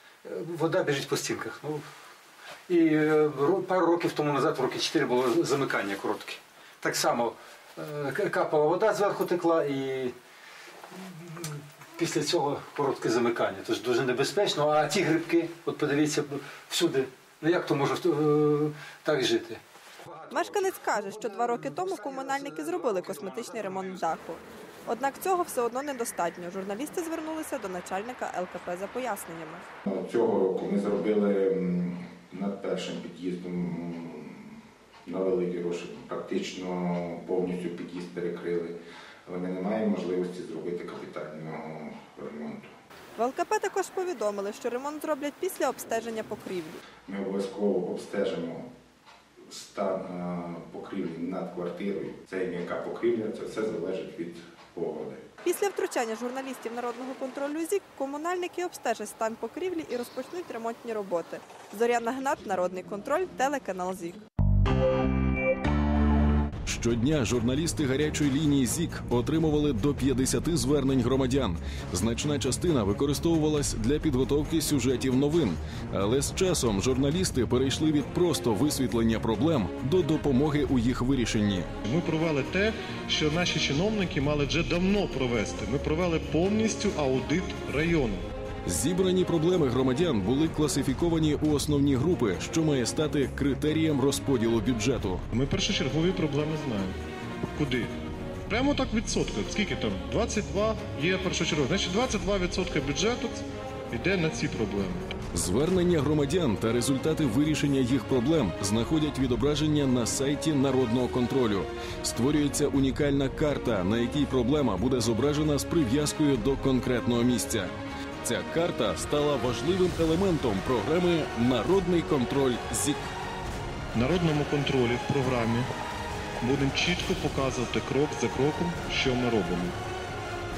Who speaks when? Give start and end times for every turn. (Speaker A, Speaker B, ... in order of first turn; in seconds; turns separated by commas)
Speaker A: 0.2-1.9, Speaker A: 2.7-10.2, Speaker A: 10.9-24.0, Speaker B: 20.3-29.6, Speaker C: 29.9-38.7, Speaker C: 39.2-42.7, Speaker B: 43.2-46.8, Speaker C: 47.0-48.7, Speaker C: 49.5-55.2, Speaker B: 55.4-64.2, Speaker D: 66.6-81.7, Speaker E: 81.8-88.3, Speaker D: 88.7-95.2, Speaker E: 95.3-97.0, Speaker E: 97.5-105.1, Speaker D: 105.3-117.7, Speaker D: 118.2-123.1, Speaker E: 123.9-125.7, Speaker E: 126.4-129.8